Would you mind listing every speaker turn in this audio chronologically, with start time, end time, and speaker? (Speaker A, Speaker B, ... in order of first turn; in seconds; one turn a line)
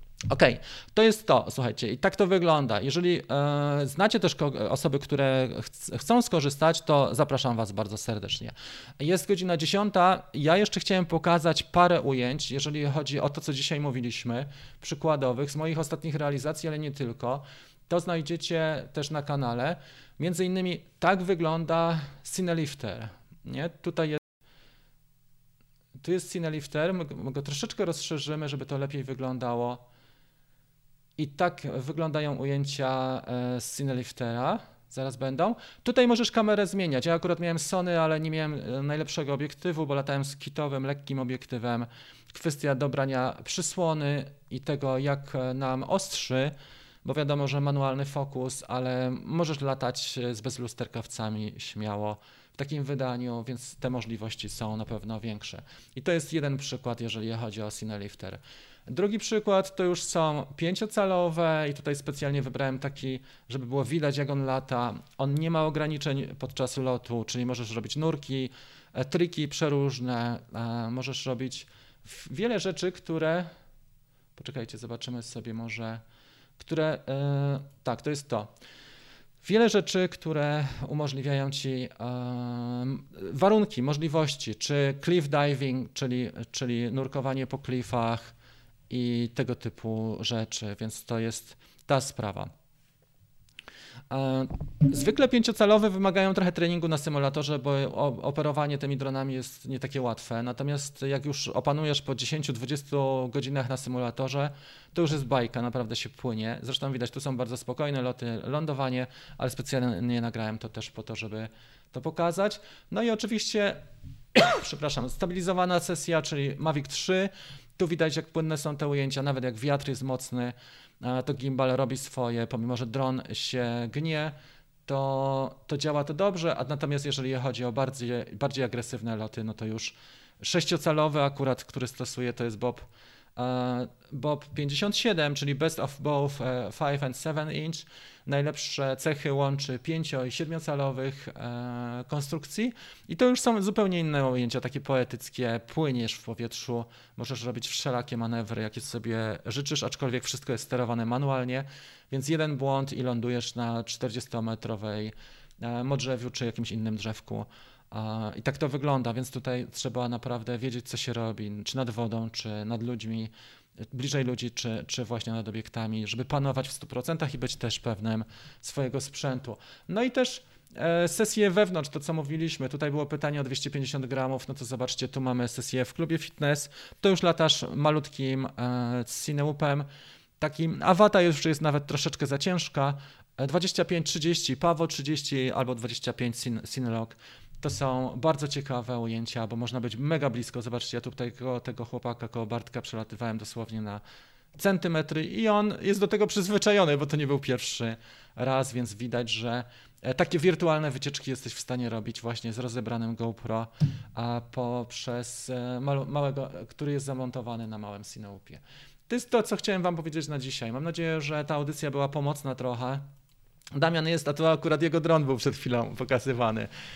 Speaker A: 0.3-24.2
Speaker A: 26.0-29.8
Speaker A: 31.2-73.5
Speaker A: 74.3-76.0
Speaker A: 76.6-78.5
Speaker A: 79.4-88.3
Speaker A: 88.9-92.5
Speaker A: 94.1-113.8
Speaker A: 114.3-124.3
Speaker A: 124.8-163.3
Speaker A: 163.9-179.9
Speaker A: 180.4-194.0
Speaker A: 194.6-213.1
Speaker A: 213.7-216.7